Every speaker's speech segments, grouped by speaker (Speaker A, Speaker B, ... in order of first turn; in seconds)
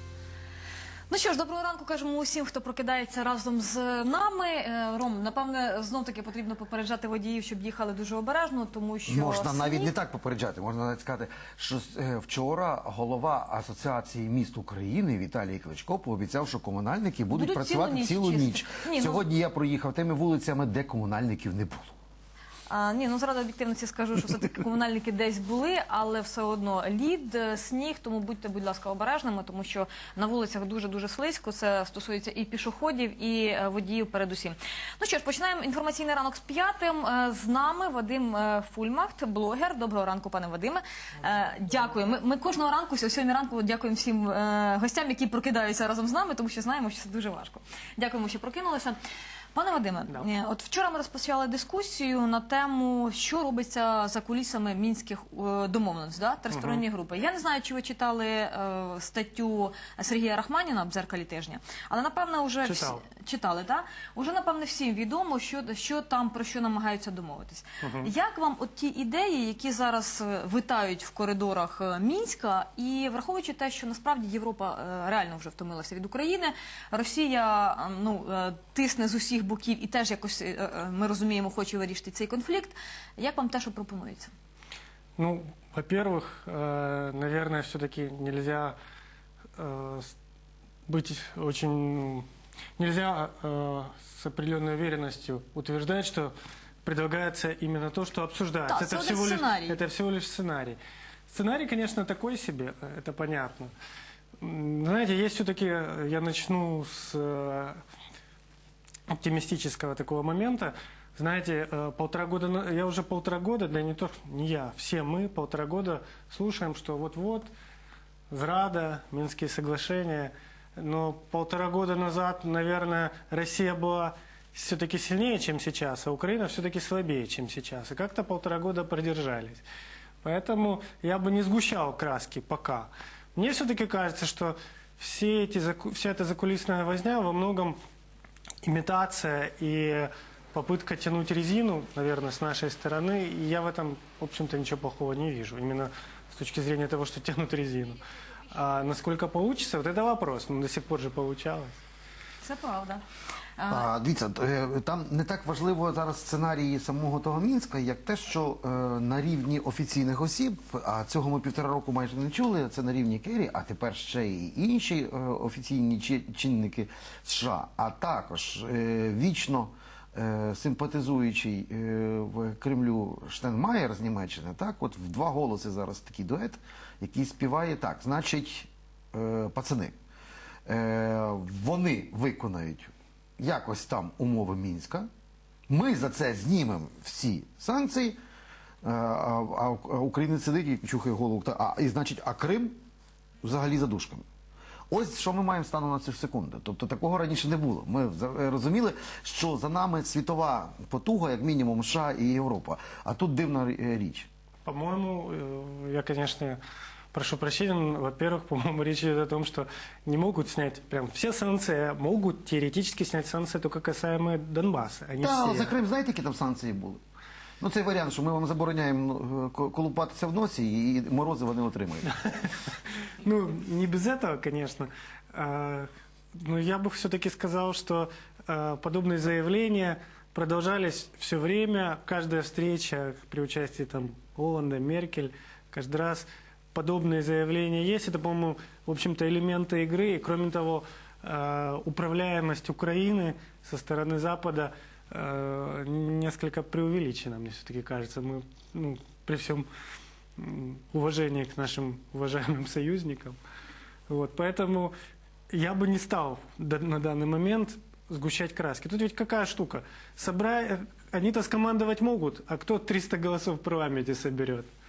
Speaker A: 1.1-9.9, 17.3-19.2, 22.7-49.0, 49.5-84.3, 98.7-99.8, 152.4-153.0, 153.6-153.9
Speaker B: 9.1-21.9, 153.7-180.0, 180.7-185.1, 185.7-188.2, 188.8-192.8, 193.4-194.2, 194.9-204.3, 215.2-217.0, 217.6-222.1
Speaker C: 56.5-56.8, 62.6-63.0, 67.8-68.1, 85.2-88.8, 89.6-90.1, 90.9-96.3, 96.8-103.7, 104.4-107.8, 109.1-117.5, 118.3-129.6, 130.2-137.8, 138.6-151.8, 204.7-206.6, 207.1-215.7, 222.2-222.5, 223.2-249.7, 250.4-253.4, 254.1-254.9, 255.5-264.7